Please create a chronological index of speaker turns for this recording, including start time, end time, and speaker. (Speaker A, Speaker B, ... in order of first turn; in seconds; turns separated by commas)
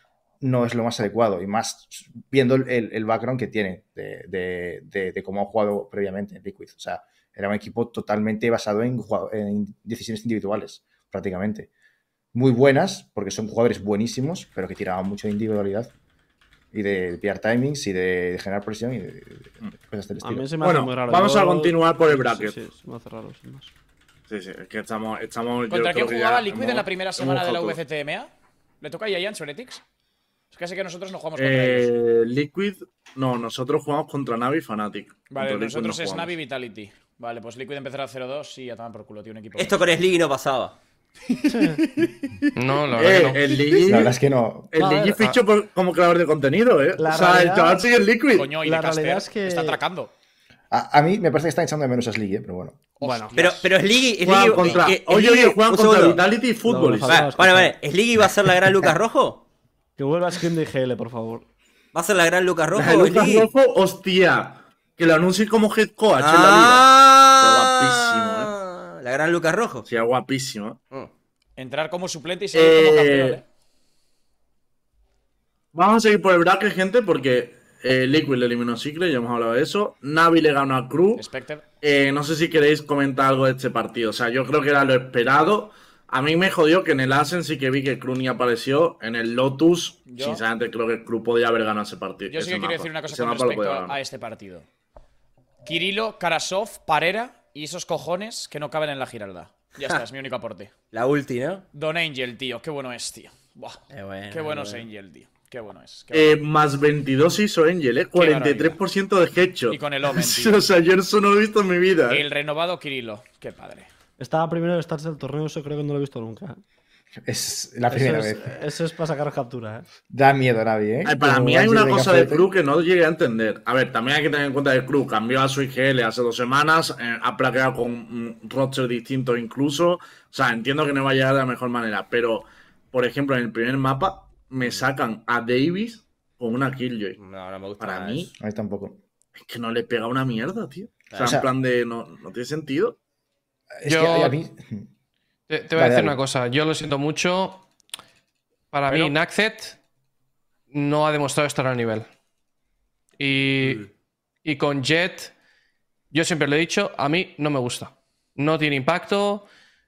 Speaker A: 0.4-11.7, Speaker A: 12.3-15.9, Speaker A: 16.7-20.5, Speaker B: 20.2-23.7, Speaker C: 20.6-22.6, Speaker C: 24.3-27.8, Speaker D: 25.7-28.3, Speaker D: 28.8-29.8, Speaker D: 30.5-31.9, Speaker C: 31.4-36.3, Speaker D: 35.3-39.8, Speaker E: 39.5-40.8, Speaker B: 41.5-41.8, Speaker F: 42.5-43.6, Speaker C: 42.9-44.1, Speaker A: 43.9-44.7, Speaker C: 44.7-48.5, Speaker B: 44.8-45.4, Speaker B: 47.0-47.9, Speaker D: 48.3-50.1, Speaker B: 48.6-49.8, Speaker A: 50.7-52.8, Speaker D: 53.0-53.7, Speaker B: 53.0-53.4, Speaker E: 53.4-56.2, Speaker C: 54.2-57.3, Speaker D: 54.6-54.8, Speaker B: 56.6-57.7, Speaker E: 57.1-59.5, Speaker B: 60.0-61.5, Speaker E: 61.9-63.5, Speaker C: 62.7-68.5, Speaker E: 66.2-69.9, Speaker C: 69.8-70.8, Speaker D: 71.6-73.4, Speaker C: 72.5-73.4, Speaker C: 75.7-81.2, Speaker D: 81.2-81.6, Speaker C: 81.8-94.0, Speaker D: 90.1-90.4, Speaker D: 92.3-94.7, Speaker D: 95.6-100.7, Speaker E: 100.9-101.7, Speaker D: 101.7-106.4, Speaker E: 103.9-104.8, Speaker C: 106.1-112.2, Speaker D: 108.2-108.8, Speaker D: 109.7-110.6, Speaker D: 112.1-113.9, Speaker B: 114.2-116.6, Speaker A: 117.2-118.5, Speaker B: 117.9-119.9, Speaker A: 120.1-122.5, Speaker C: 121.0-137.2, Speaker E: 137.2-138.3, Speaker C: 137.8-138.3, Speaker A: 138.4-139.0, Speaker C: 139.3-143.0, Speaker E: 141.1-141.4, Speaker A: 141.2-141.5, Speaker A: 143.8-144.9, Speaker F: 143.8-144.3, Speaker F: 145.5-147.7, Speaker A: 145.7-146.2, Speaker F: 148.7-149.8, Speaker F: 150.7-152.1, Speaker F: 153.2-153.9, Speaker F: 154.4-155.3, Speaker F: 156.1-159.5